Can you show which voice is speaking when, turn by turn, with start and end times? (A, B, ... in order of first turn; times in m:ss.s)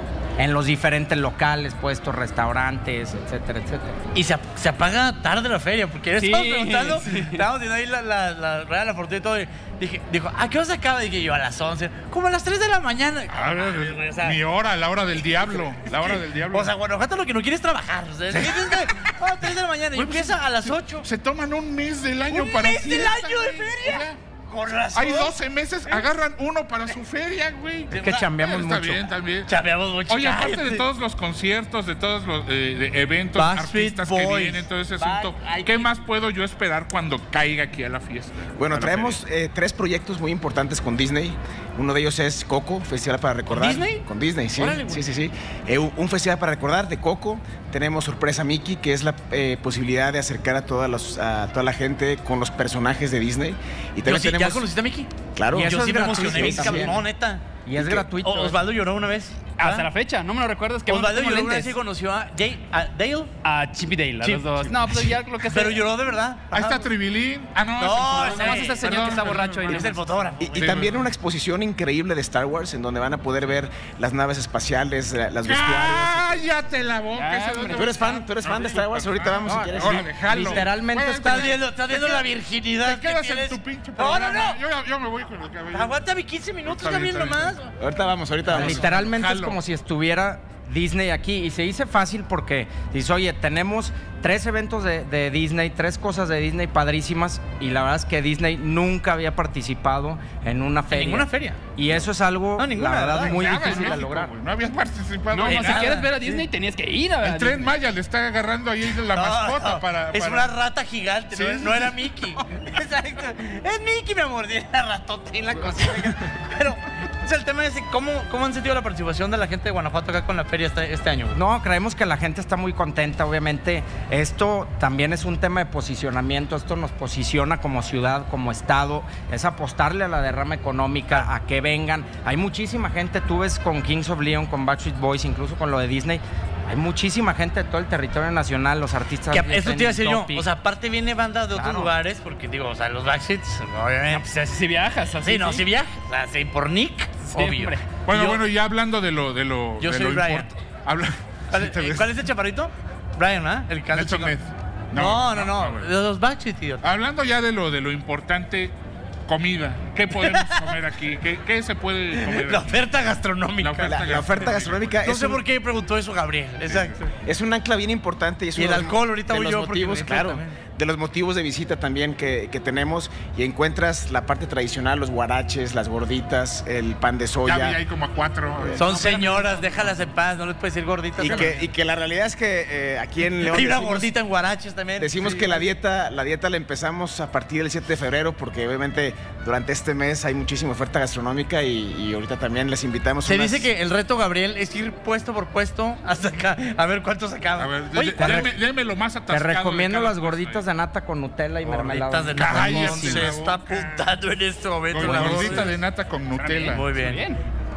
0:00.4-0:04.0 A
0:04.1-0:14.4 B
0:06.2-0:07.4 C
0:13.3-0:16.7 D
0:15.4-0:21.0 B
0:18.3-0:18.6 D
0:19.9-0:24.2 D
0:22.3-0:25.4 B
0:24.9-0:29.5 D
0:27.9-0:29.0 A
0:27.9-0:28.3 B
0:29.5-0:30.8 B
0:30.1-0:39.2 D
0:33.4-0:35.9 B
0:38.6-0:54.6 E
0:43.5-0:44.0 B
0:44.6-0:45.0 B
0:54.0-0:59.9 B
0:55.4-0:57.0 E
0:55.5-0:57.0 A
0:57.6-0:58.6 A
0:59.6-1:01.7 C
1:00.9-1:03.3 B
1:03.4-1:05.8 C
1:04.2-1:06.9 B
1:06.5-1:09.9 D
1:07.8-1:10.9 B
1:08.2-1:09.9 C
1:10.4-1:16.4 E
1:10.6-1:11.0 D
1:15.4-1:22.2 D
1:17.1-1:18.0 C
1:17.7-1:20.2 E
1:18.0-1:18.2 B
1:19.4-1:21.6 A
1:21.2-1:24.6 B
1:22.8-1:25.9 D
1:25.7-1:27.7 B
1:26.6-1:27.6 D
1:27.8-1:28.7 E
1:28.4-1:44.3 A
1:28.5-1:29.6 D
1:40.9-1:41.6 B
1:42.6-1:43.9 B
1:43.2-1:46.1 D
1:45.3-1:47.7 C
1:45.4-1:46.2 B
1:47.2-1:50.5 D
1:49.1-2:01.4 B
1:51.3-1:52.2 D
2:01.3-2:20.5 A
2:19.3-2:24.2 B
2:21.5-2:21.9 A
2:24.1-2:25.6 C
2:25.2-2:28.4 B
2:27.2-2:27.8 C
2:28.0-2:32.1 D
2:29.8-2:30.5 B
2:31.5-2:34.3 B
2:33.9-2:35.9 D
2:34.9-2:36.8 B
2:36.8-2:38.7 D
2:39.3-2:42.9 D
2:40.2-2:40.8 B
2:42.1-2:44.0 B
2:43.6-2:45.0 D
2:43.8-2:45.4 E
2:45.0-2:47.0 B
2:46.6-2:47.0 D
2:47.2-2:57.8 E
2:48.6-2:50.6 B
2:57.4-2:59.9 D
2:58.8-3:01.5 B
3:01.2-3:04.1 E
3:01.2-3:01.6 D
3:03.4-3:05.6 B
3:05.0-3:13.7 E
3:13.2-3:18.5 B
3:17.6-3:20.6 D
3:18.2-3:18.5 A
3:19.3-3:23.3 A
3:21.6-3:25.7 B
3:22.4-3:24.1 D
3:24.9-3:26.8 D
3:25.1-3:25.6 C
3:26.4-3:27.2 B
3:26.6-3:27.4 C